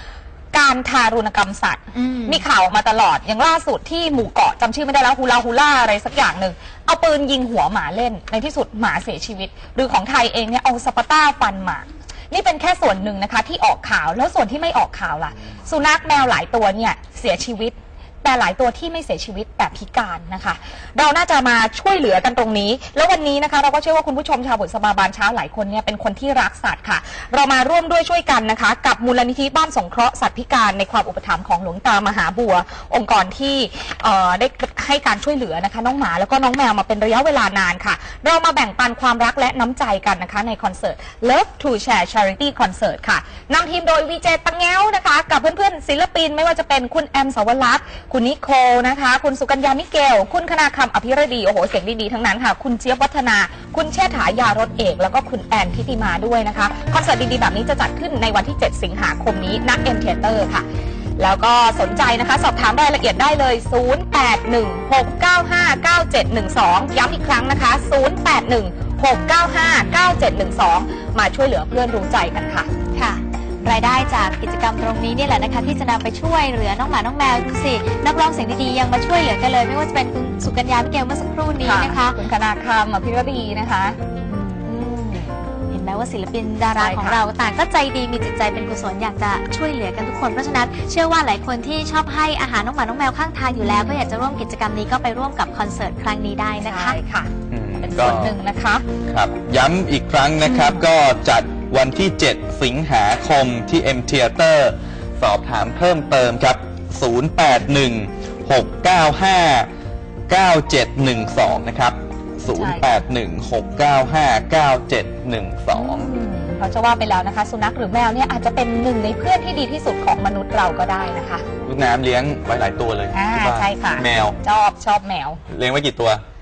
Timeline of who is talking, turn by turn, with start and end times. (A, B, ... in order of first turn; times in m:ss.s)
0:00.5-1:00.7 A
0:01.9-0:02.4 B
1:01.2-1:12.7 A
1:13.0-1:22.2 B
1:21.6-1:24.0 A
1:24.3-1:37.0 B
1:26.7-1:27.2 A
1:33.6-1:34.0 A
1:36.6-1:38.9 A
1:37.5-1:38.4 C
1:39.1-1:49.7 C
1:40.4-1:40.8 A
1:50.3-1:56.1 C
1:52.6-1:52.9 A
1:55.7-2:01.4 A
2:01.6-2:04.4 C
2:03.1-2:05.4 A
2:05.5-2:06.2 C